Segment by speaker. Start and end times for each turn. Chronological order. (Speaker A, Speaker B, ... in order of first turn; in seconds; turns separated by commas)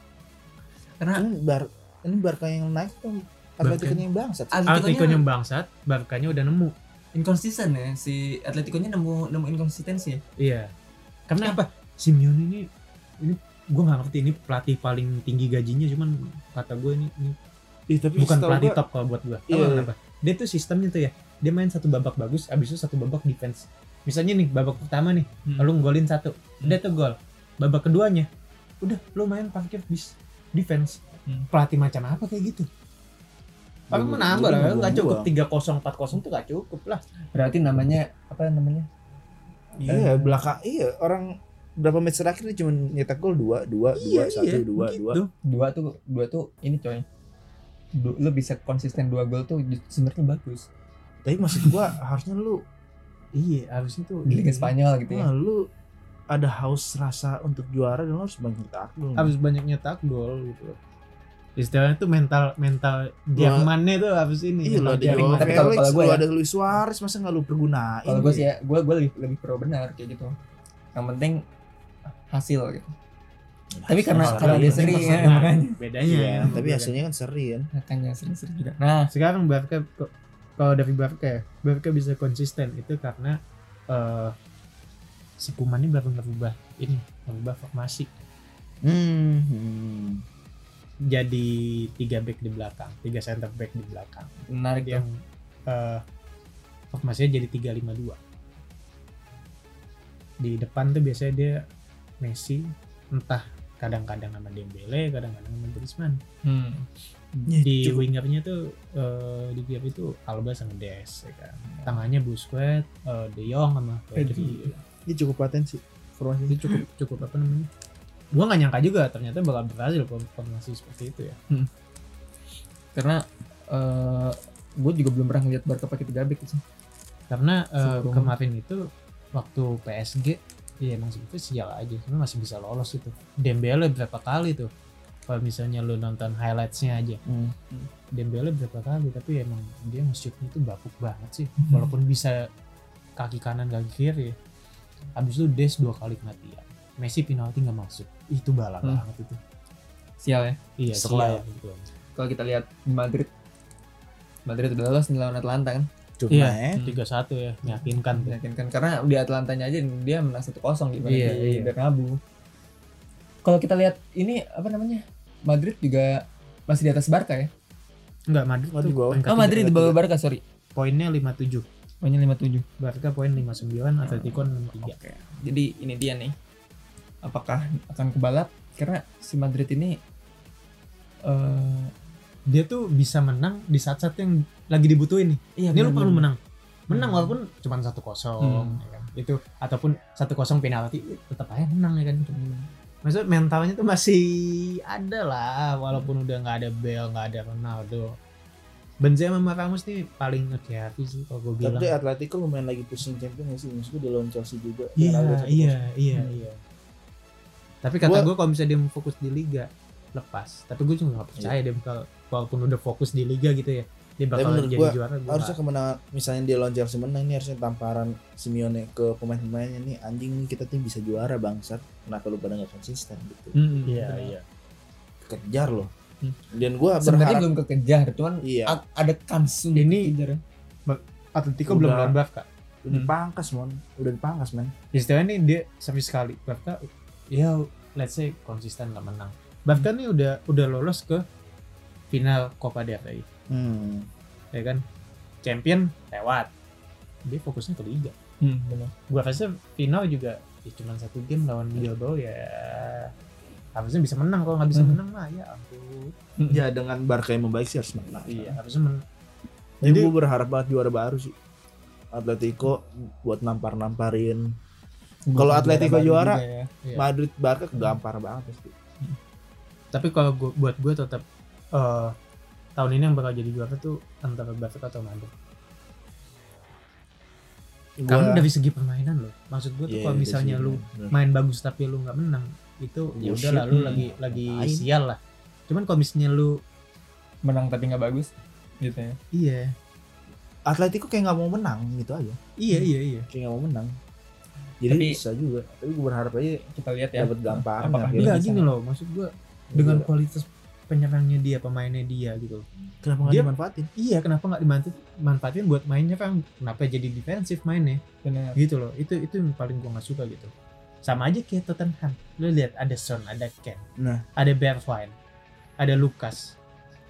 Speaker A: 1.0-1.2, Speaker B: 1.1-4.6, Speaker A: 3.6-4.0, Speaker A: 4.5-5.2, Speaker C: 4.7-6.7, Speaker A: 7.1-10.2, Speaker C: 10.4-10.7, Speaker C: 11.3-12.7, Speaker C: 13.2-17.4, Speaker B: 17.9-18.8, Speaker C: 18.2-28.3, Speaker B: 19.5-19.9, Speaker C: 28.8-32.7, Speaker B: 33.9-35.3, Speaker C: 33.9-37.0, Speaker A: 37.3-38.9, Speaker C: 39.8-40.2, Speaker B: 39.8-45.2, Speaker A: 39.9-40.4, Speaker C: 44.0-45.3, Speaker A: 45.4-47.0, Speaker A: 47.9-50.7, Speaker B: 51.2-52.6, Speaker C: 53.3-54.7, Speaker A: 54.3-55.3, Speaker B: 55.1-55.7, Speaker B: 56.3-59.3, Speaker C: 59.2-60.8, Speaker C: 61.5-65.7, Speaker B: 63.4-63.7, Speaker B: 64.6-68.5, Speaker A: 65.0-66.2, Speaker A: 68.0-70.3, Speaker A: 70.9-71.4, Speaker A: 72.2-72.9, Speaker B: 73.7-75.5, Speaker A: 73.9-75.8, Speaker C: 74.2-76.9, Speaker B: 76.0-77.7, Speaker A: 77.7-79.1, Speaker C: 79.1-84.3, Speaker C: 85.4-88.1, Speaker B: 88.8-90.2, Speaker C: 91.1-95.1, Speaker A: 94.5-95.0, Speaker C: 95.7-96.0, Speaker C: 96.9-98.2, Speaker C: 100.4-101.6, Speaker C: 102.2-106.2, Speaker A: 106.4-107.5, Speaker B: 107.5-108.0, Speaker C: 107.6-114.7, Speaker A: 114.1-114.8, Speaker B: 115.1-116.7, Speaker A: 116.5-116.8, Speaker C: 116.7-117.7, Speaker C: 118.3-121.4, Speaker A: 122.9-126.6, Speaker C: 127.3-134.7, Speaker A: 127.8-128.3, Speaker C: 135.3-137.2, Speaker B: 137.2-137.6, Speaker C: 138.1-142.5, Speaker A: 141.6-141.9, Speaker C: 143.2-144.4, Speaker C: 145.2-149.4, Speaker A: 150.2-150.6, Speaker C: 150.8-151.9, Speaker B: 150.9-151.4, Speaker A: 152.1-153.3, Speaker A: 154.4-155.9, Speaker B: 156.2-156.8, Speaker C: 156.3-158.3, Speaker A: 157.7-162.2, Speaker C: 161.0-161.7, Speaker A: 163.4-167.5, Speaker C: 168.3-169.6, Speaker B: 168.7-170.0, Speaker A: 169.3-170.4, Speaker C: 170.8-171.7, Speaker A: 172.0-172.6, Speaker C: 172.8-174.9, Speaker A: 174.0-176.3, Speaker A: 177.2-180.0, Speaker A: 181.2-181.9, Speaker C: 182.5-192.3, Speaker A: 185.6-186.3, Speaker A: 186.9-187.4, Speaker A: 188.4-188.8, Speaker A: 192.2-192.7, Speaker C: 193.0-198.2, Speaker C: 199.0-201.9, Speaker B: 201.6-205.8, Speaker C: 205.0-206.6, Speaker C: 207.8-215.6, Speaker B: 208.0-208.3, Speaker B: 214.3-223.6, Speaker A: 223.5-224.3, Speaker C: 223.8-224.4, Speaker B: 225.2-225.9, Speaker B: 226.5-227.5, Speaker A: 227.0-230.4, Speaker B: 228.4-228.8, Speaker C: 229.7-230.1, Speaker C: 230.9-232.5, Speaker B: 231.7-232.2, Speaker B: 232.8-234.7, Speaker C: 234.9-241.2, Speaker C: 242.1-243.2, Speaker B: 243.5-244.1, Speaker C: 244.5-244.8, Speaker C: 245.4-246.5, Speaker C: 247.2-248.1, Speaker A: 248.4-248.9, Speaker C: 249.1-253.1, Speaker C: 253.7-256.1, Speaker A: 254.7-255.0, Speaker B: 256.5-258.6, Speaker C: 258.3-259.0, Speaker B: 259.8-261.3, Speaker C: 259.8-260.1, Speaker B: 262.1-264.5, Speaker A: 265.3-266.7, Speaker B: 265.4-266.4, Speaker B: 266.9-268.7, Speaker C: 269.9-272.1, Speaker C: 272.8-275.3, Speaker B: 278.0-278.5, Speaker C: 278.1-286.6, Speaker B: 279.9-281.1, Speaker B: 283.2-284.9, Speaker A: 283.7-284.0, Speaker A: 287.4-289.2, Speaker C: 289.3-289.7, Speaker B: 290.7-292.4, Speaker C: 292.6-293.3, Speaker B: 293.3-293.9, Speaker B: 294.8-296.6, Speaker A: 294.9-295.2, Speaker A: 296.7-298.7, Speaker B: 297.2-298.4, Speaker C: 298.1-302.6, Speaker B: 299.7-300.1, Speaker B: 303.0-303.9, Speaker C: 303.2-308.0, Speaker A: 308.2-308.6, Speaker C: 308.6-310.5, Speaker C: 311.0-313.8, Speaker B: 314.0-314.2, Speaker C: 314.4-315.1, Speaker C: 315.8-316.6